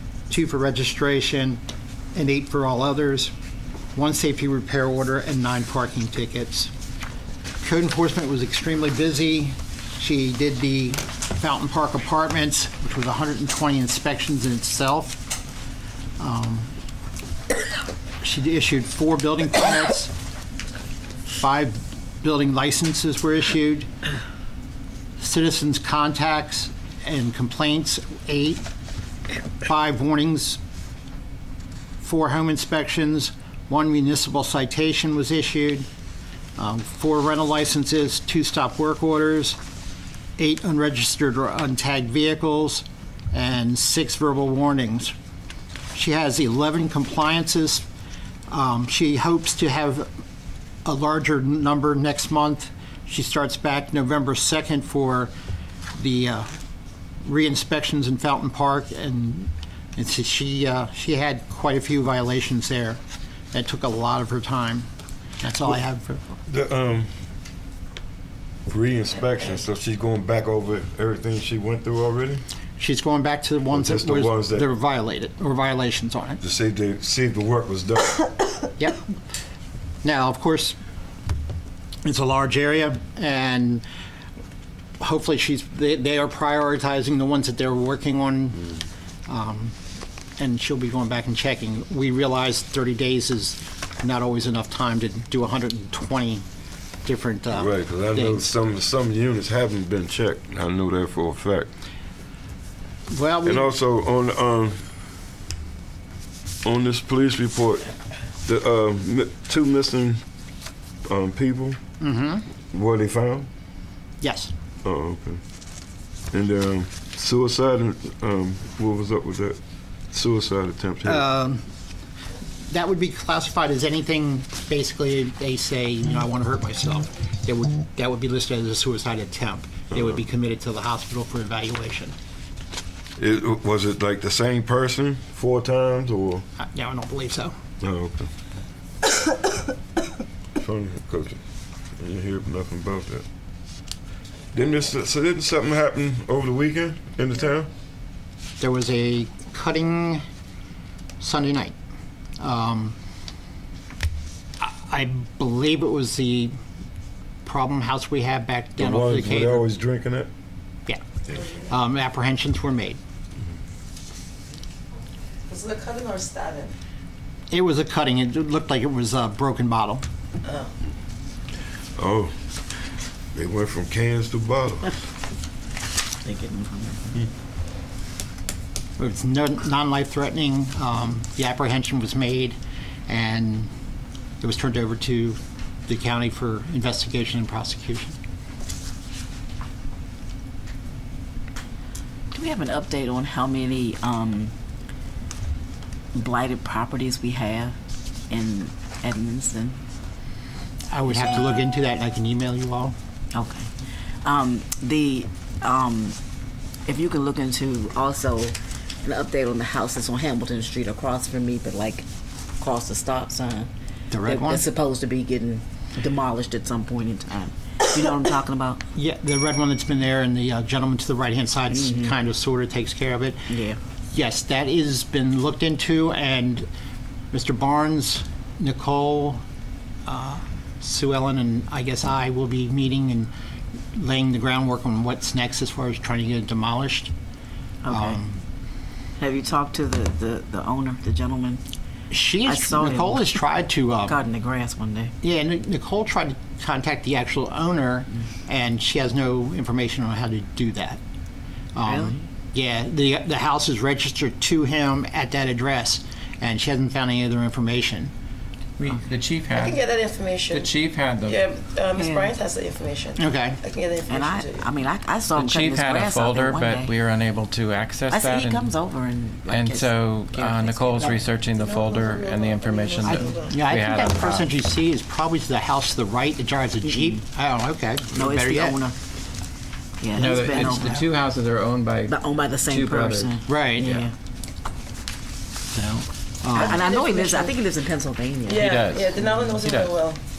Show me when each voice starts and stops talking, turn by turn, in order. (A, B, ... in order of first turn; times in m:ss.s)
0:00.3-0:01.6 A
0:02.1-0:03.3 A
0:03.9-0:06.7 A
0:07.6-0:15.3 A
0:16.2-0:16.7 A
0:18.2-0:20.1 A
0:21.4-0:23.9 A
0:25.2-0:28.6 A
0:29.6-0:30.6 A
0:32.0-0:35.9 A
0:36.6-0:39.6 A
0:40.4-0:45.1 A
0:45.9-0:47.8 A
0:48.5-0:50.1 A
0:50.8-0:55.3 A
0:55.9-0:56.5 A
0:57.2-1:03.0 A
1:03.5-1:04.9 A
1:05.4-1:06.2 A
1:06.5-1:07.1 B
1:08.7-1:12.4 B
1:12.8-1:16.4 A
1:13.7-1:14.7 B
1:16.4-1:18.3 B
1:20.0-1:20.8 A
1:22.0-1:23.8 A
1:25.0-1:29.8 A
1:30.4-1:36.4 A
1:37.0-1:38.5 A
1:37.5-1:41.7 B
1:43.1-1:43.7 A
1:43.4-1:44.8 B
1:46.6-1:47.9 B
1:48.4-1:50.2 B
1:51.0-1:51.8 B
1:52.0-1:52.4 A
1:52.7-1:53.5 B
1:54.2-1:54.5 A
1:54.8-1:55.4 B
1:56.3-1:59.6 B
2:00.1-2:01.2 B
2:01.0-2:01.7 A
2:02.6-2:12.1 A
2:13.2-2:16.4 B
2:16.6-2:17.6 A
2:17.8-2:18.3 B
2:20.6-2:21.4 B
2:22.0-2:23.2 B
2:24.5-2:27.7 B
2:28.6-2:30.2 A
2:31.2-2:31.7 A
2:32.4-2:33.0 A
2:34.6-2:36.5 A
2:37.4-2:39.7 A
2:38.8-2:40.3 B
2:40.9-2:43.0 A
2:45.5-2:46.7 C
2:47.5-2:50.0 A
2:50.4-2:50.7 C
2:52.0-2:52.4 B
2:53.3-2:55.0 B
2:56.2-2:57.2 D
2:59.0-3:03.7 A
3:04.4-3:08.2 A
3:12.3-3:14.5 D
3:16.1-3:17.8 D
3:18.3-3:19.8 D
3:20.9-3:23.0 A
3:23.3-3:23.7 D
3:24.2-3:26.2 D
3:26.8-3:32.0 D
3:32.6-3:33.7 D
3:34.1-3:34.6 A
3:34.2-3:38.8 D
3:38.9-3:43.4 A
3:41.7-3:42.1 D
3:43.5-3:43.8 D
3:44.1-3:46.7 A
3:47.3-3:49.4 A
3:50.0-3:53.3 A
3:53.9-3:57.1 A
3:57.8-3:58.2 D
3:57.9-3:58.4 A
3:59.2-4:01.6 D
4:02.1-4:04.2 A
4:02.4-4:03.2 D
4:04.0-4:05.1 D
4:05.2-4:11.0 A
4:11.7-4:18.1 A
4:11.8-4:12.2 D
4:18.8-4:19.8 E
4:19.5-4:24.6 C
4:20.5-4:21.4 E
4:21.9-4:22.4 D
4:23.2-4:23.6 A
4:24.1-4:26.9 D
4:25.3-4:28.7 E
4:28.1-4:31.2 D
4:29.5-4:34.5 E
4:31.5-4:33.6 C
4:33.0-4:38.8 A
4:36.9-4:37.2 D
4:38.1-4:39.0 D
4:40.0-4:41.0 D
4:40.1-4:44.0 E
4:40.2-4:41.0 A
4:42.1-4:44.1 D
4:43.5-4:43.9 A
4:45.7-4:46.8 A
4:46.5-4:48.7 D
4:46.6-4:47.5 C
4:48.4-4:50.2 C
4:48.6-4:49.9 E